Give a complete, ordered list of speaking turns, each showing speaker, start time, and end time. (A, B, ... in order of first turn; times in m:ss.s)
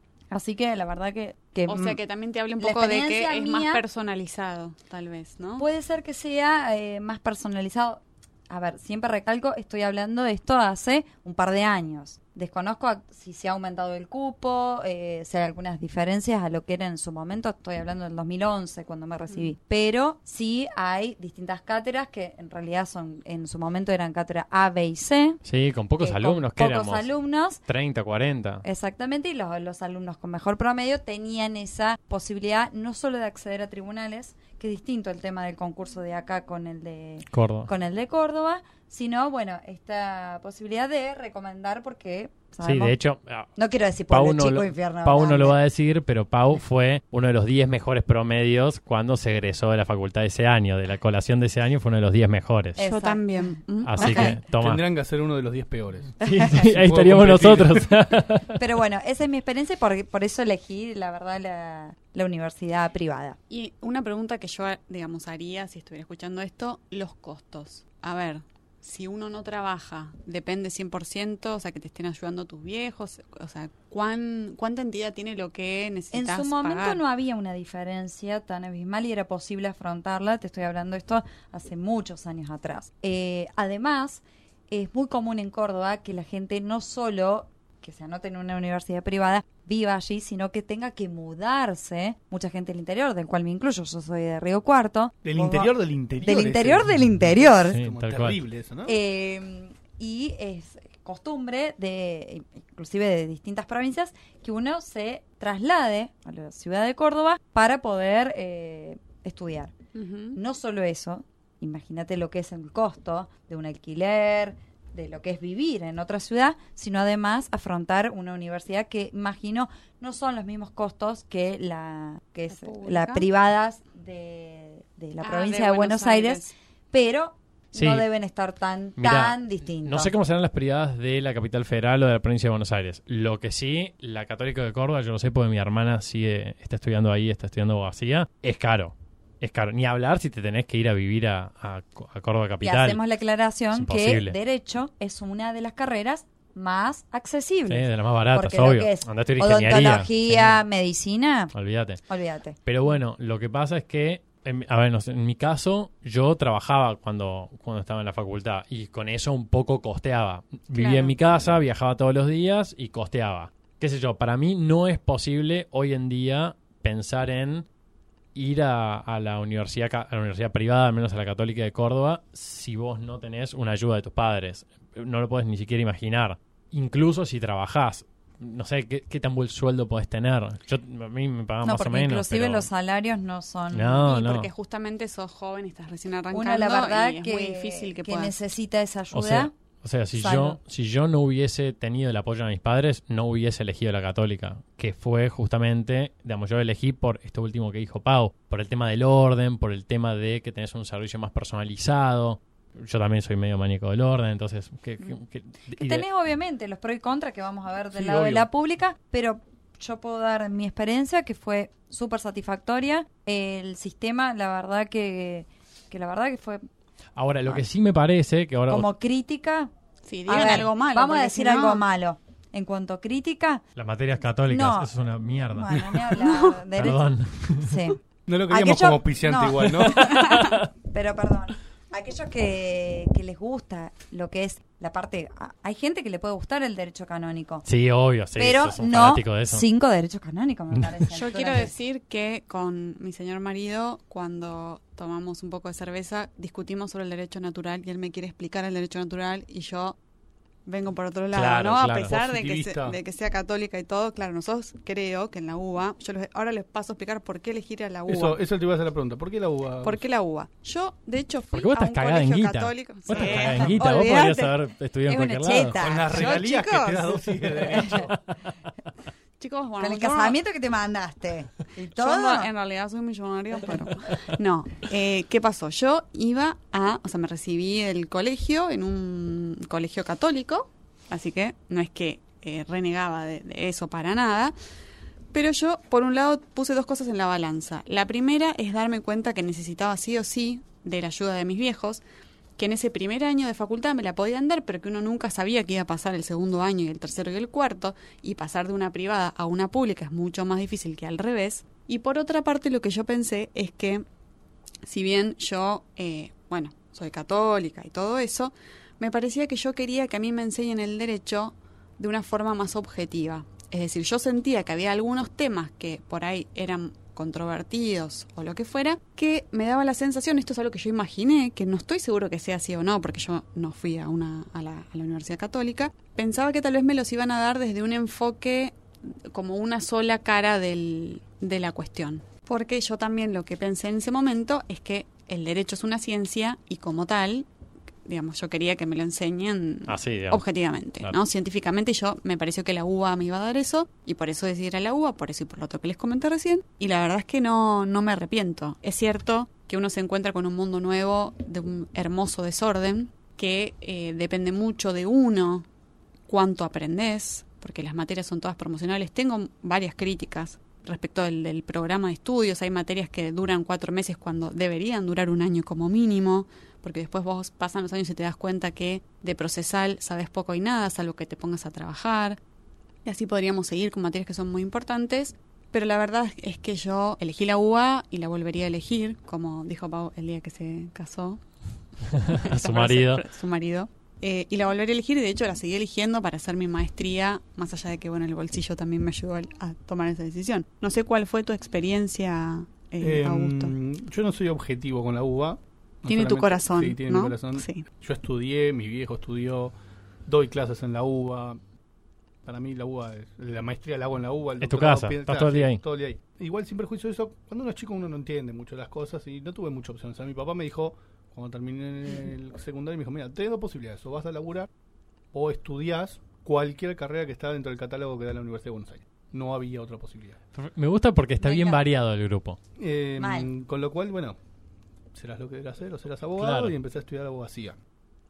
0:00.3-0:02.0 A
0:01.7-0:05.7 B
0:02.6-0:03.8 A
0:05.6-0:25.4 A
0:25.4-0:27.1 C
0:26.0-0:27.6 A
0:27.6-0:28.6 C
0:28.6-0:42.9 A
0:37.3-0:37.7 C
0:42.6-0:43.5 C
0:43.6-0:45.6 A
0:44.1-0:52.8 C
0:52.8-0:53.2 A
0:52.8-0:54.3 B
0:53.8-0:54.8 C
0:54.0-0:54.4 A
0:54.5-0:57.9 D
0:56.2-0:58.6 C
0:56.2-0:56.6 A
0:58.5-1:03.4 A
1:03.5-1:17.0 B
1:16.1-1:37.8 A
1:35.2-1:39.0 D
1:37.7-1:38.4 C
1:38.8-1:49.7 A
1:49.9-1:50.4 B
1:50.3-2:10.1 A
2:02.5-2:03.3 B
2:05.2-2:06.5 B
2:07.7-2:08.0 C
2:09.0-2:23.0 C
2:22.6-2:31.5 A
2:23.7-2:24.4 C
2:27.7-2:30.6 C
2:31.5-2:32.0 C
2:32.1-2:32.6 A
2:32.6-2:47.6 C
2:40.8-2:41.2 A
2:48.3-3:02.7 C
3:01.6-3:04.1 A
3:03.7-3:04.5 C
3:04.0-3:08.3 B
3:06.3-3:09.5 A
3:09.1-3:26.0 C
3:10.2-3:10.6 A
3:25.7-3:36.6 A
3:27.9-3:28.4 D
3:37.2-3:38.9 C
3:38.7-3:39.7 A
3:40.0-3:41.8 B
3:40.2-3:43.6 A
3:43.8-3:46.1 C
3:44.5-3:44.9 A
3:45.5-3:47.0 A
3:46.2-3:46.6 B
3:46.7-3:47.8 C
3:47.6-3:57.6 A
3:48.3-3:50.2 D
3:50.0-3:50.7 C
3:57.6-3:59.6 C
3:58.4-4:01.7 A
4:01.1-4:10.0 B
4:10.6-4:18.4 B
4:11.3-4:12.1 C
4:12.1-4:13.0 D
4:18.1-4:20.0 D
4:19.8-4:24.3 B
4:21.5-4:25.8 C
4:23.2-4:24.5 A
4:25.1-4:26.3 A
4:25.8-4:28.1 D
4:26.1-4:27.4 B
4:27.8-4:28.4 C
4:29.4-4:30.4 B
4:29.8-4:32.5 A
4:31.9-4:44.5 B
4:45.3-4:52.0 B
4:52.6-5:04.0 B
5:04.8-5:37.5 B
5:38.0-5:55.6 B
5:39.9-5:40.4 C
5:56.3-6:12.4 B
6:13.0-6:21.4 B
6:22.1-6:23.2 C
6:22.2-6:33.7 B
6:33.0-6:39.7 D
6:36.0-6:37.8 B
6:40.2-6:41.6 D
6:42.4-6:54.7 D
6:44.6-6:45.8 C
6:55.3-7:00.4 D
7:00.5-7:02.6 C
7:01.4-7:01.8 A
7:02.8-7:04.4 D
7:03.2-7:03.5 A
7:05.1-7:07.8 D
7:06.4-7:06.8 C